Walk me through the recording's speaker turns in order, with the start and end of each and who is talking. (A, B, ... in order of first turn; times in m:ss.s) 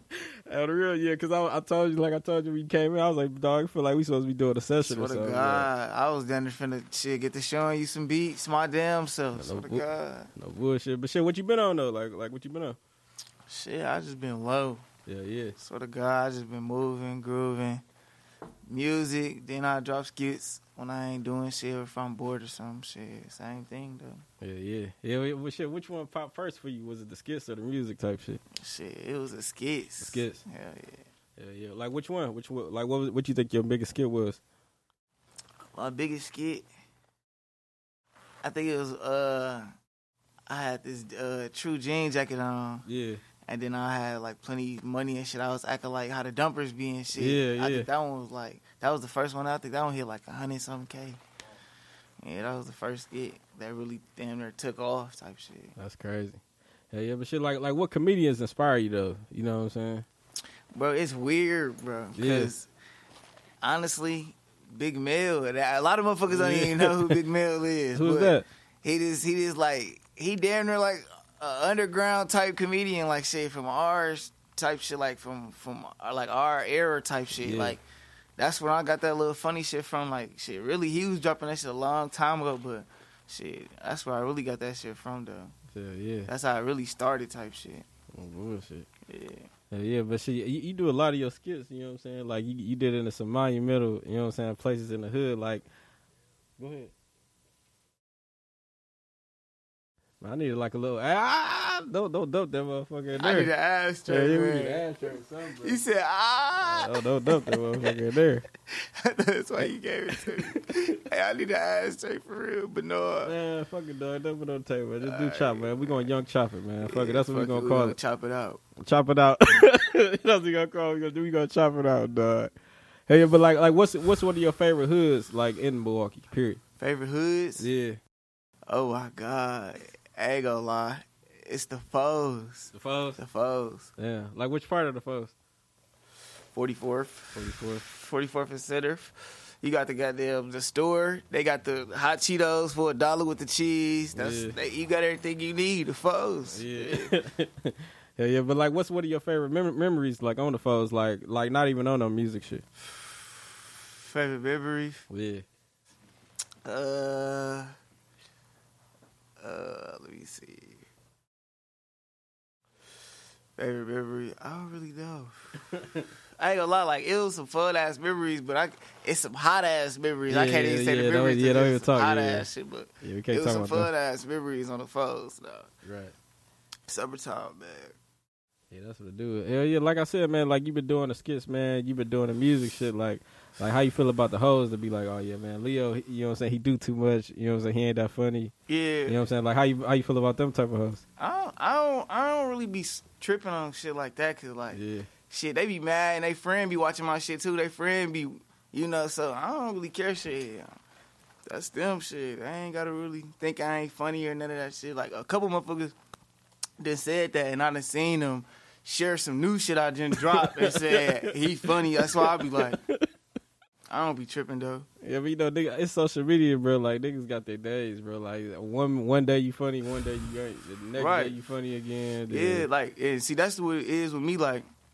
0:00.5-0:05.7 A
0:04.8-0:10.3 B
0:09.4-0:12.8 A
0:13.5-0:14.8 B
0:15.1-0:15.6 A
0:15.6-0:17.8 B
0:18.7-0:24.2 B
0:24.4-0:28.4 A
0:28.6-0:31.0 B
0:30.0-0:30.4 A
0:31.4-0:34.4 A
0:35.7-0:36.7 B
0:38.4-0:39.7 B
0:40.5-0:42.8 B
0:42.9-0:43.2 A
0:43.5-0:51.2 B
0:47.2-0:47.9 A
0:52.2-0:55.7 B
0:55.8-0:56.4 A
0:56.9-1:00.0 A
1:00.7-1:02.7 B
1:02.2-1:02.5 A
1:03.6-1:17.8 B
1:06.3-1:07.2 A
1:08.0-1:08.4 A
1:17.4-1:17.8 A
1:18.4-1:25.5 B
1:25.7-1:26.3 A
1:26.3-1:27.9 B
1:28.2-1:28.9 A
1:29.1-1:29.5 B
1:29.7-1:35.6 A
1:36.6-1:36.9 A
1:40.2-1:43.5 A
1:43.2-1:44.8 B
1:44.1-1:45.8 A
1:45.6-1:46.9 B
1:46.6-1:48.4 A
1:47.5-1:47.9 B
1:49.0-1:53.3 B
1:53.2-1:58.0 A
1:55.0-1:56.1 B
1:56.8-1:58.6 B
1:58.8-2:02.5 A
2:03.1-2:06.6 A
2:06.8-2:07.7 B
2:07.6-2:08.0 A
2:08.7-2:13.9 B
2:12.7-2:13.2 A
2:14.0-2:15.3 A
2:16.5-2:27.1 B
2:17.3-2:17.8 A
2:24.2-2:24.6 A
2:26.5-2:32.6 A
2:34.0-2:35.1 B
2:35.1-2:35.5 A
2:36.6-2:37.7 B
2:39.4-2:40.8 B
2:43.6-2:45.4 B
2:46.4-2:55.7 B
2:50.3-2:52.5 A
2:53.0-2:53.9 A
2:55.8-2:56.1 A
2:56.9-2:58.0 B
2:58.7-3:08.5 A
3:08.7-3:09.2 B
3:09.1-3:11.0 A
3:11.2-3:20.7 B
3:14.7-3:15.1 A
3:21.5-3:26.0 B
3:26.8-3:32.8 B
3:30.2-3:32.9 A
3:33.9-3:34.9 B
3:35.0-3:42.7 A
3:41.0-3:41.4 B
3:42.3-3:44.7 B